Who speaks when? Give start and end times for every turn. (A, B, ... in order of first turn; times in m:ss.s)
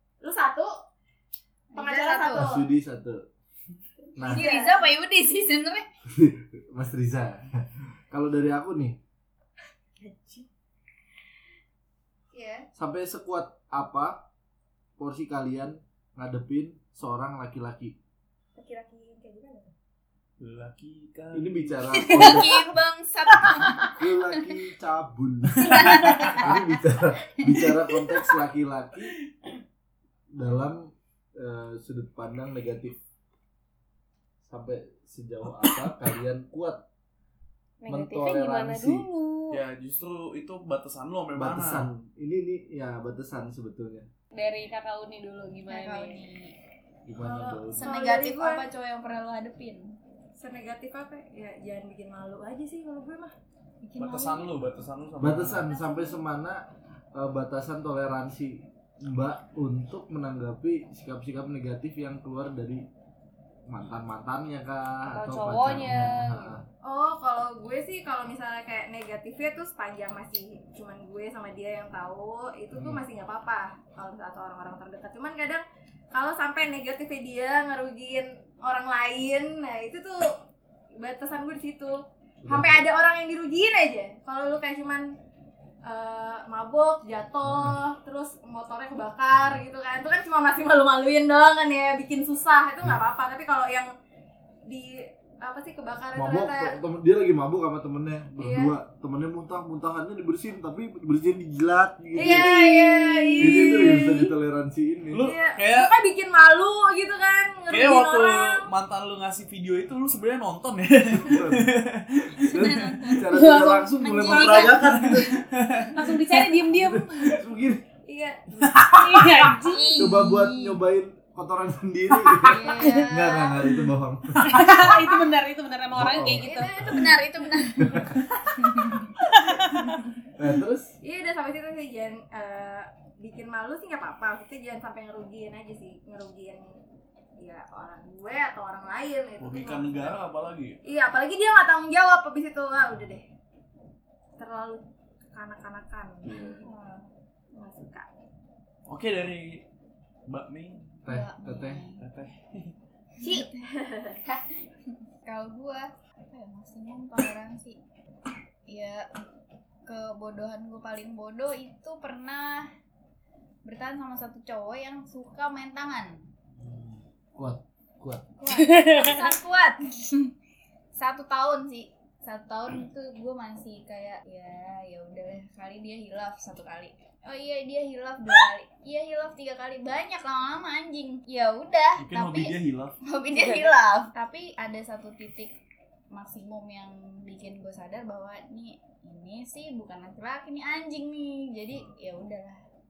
0:00.2-0:00.7 A
0:01.7-0:02.5 B
0:01.7-0:02.7 A
0:02.3-0:03.2 C
0:04.2-0:04.4 C
0:04.2-0:04.8 A
0:04.2-0:05.9 B
0:06.1-0:09.0 C
0:10.0-0:10.4 A
0:12.3-0:12.7 A
0:12.8-0:14.3 C
0:15.0-0:18.0 C
0:18.6-0:19.7 A
0:20.4-0:22.0 D
0:21.3-0:22.6 C
0:22.0-0:24.5 B
0:23.8-0:29.2 C
0:25.6-0:26.6 B
0:30.3-0:33.0 C
0:34.4-0:36.8 C
0:37.8-0:39.6 E
0:37.9-0:39.1 C
0:39.5-0:41.9 D
0:41.4-0:44.1 C
0:44.3-0:46.2 E
0:45.7-0:46.6 B
0:47.1-0:47.9 C
0:47.2-0:48.6 A
0:47.7-0:49.9 B
0:50.4-0:53.3 A
0:53.8-0:54.6 B
0:54.0-0:55.7 D
0:55.2-1:02.8 C
0:55.6-0:56.2 B
1:03.7-1:06.6 C
1:05.1-1:06.6 E
1:06.8-1:20.4 A
1:12.8-1:13.0 C
1:21.0-1:25.1 A
1:22.4-1:22.9 C
1:25.8-1:33.9 A
1:27.4-1:27.8 C
1:29.3-1:29.6 C
1:34.7-1:36.8 A
1:36.2-1:42.6 C
1:38.4-1:38.7 A
1:42.2-1:44.2 A
1:42.4-1:43.5 B
1:42.6-1:43.3 E
1:43.4-1:45.3 C
1:45.1-1:45.9 D
1:45.2-1:48.7 A
1:47.7-1:53.0 D
1:51.1-1:51.7 C
1:52.4-1:55.4 C
1:52.5-1:53.3 B
1:53.3-1:54.8 E
1:54.0-1:55.1 B
1:54.8-1:56.0 D
1:55.9-1:57.4 E
1:56.4-1:57.8 C
1:58.1-1:58.4 A
1:58.8-2:00.1 E
1:59.6-2:00.8 B
2:00.0-2:04.8 C
2:02.4-2:03.6 B
2:02.5-2:03.1 E
2:04.4-2:06.8 E
2:05.9-2:06.9 C
2:06.4-2:07.2 A
2:06.5-2:09.2 B
2:07.8-2:08.1 C
2:09.4-2:09.7 E
2:10.4-2:11.0 C
2:11.0-2:16.7 A
2:17.4-2:20.2 A
2:19.4-2:20.8 D
2:20.8-2:23.2 A
2:24.4-2:28.1 A
2:26.2-2:26.6 C
2:28.9-2:29.6 D
2:30.3-2:30.8 D
2:31.0-2:31.8 C
2:31.1-2:32.0 B
2:32.0-2:32.7 D
2:33.2-2:33.6 B
2:33.2-2:34.2 A
2:35.2-2:37.8 B
2:38.7-2:39.1 B
2:39.9-2:42.7 B
2:43.6-2:46.2 B
2:46.6-2:48.3 C
2:48.4-2:50.3 B
2:48.5-2:49.3 E
2:50.9-3:05.6 B
3:02.0-3:03.0 D
3:03.4-3:03.7 E
3:06.1-3:12.6 B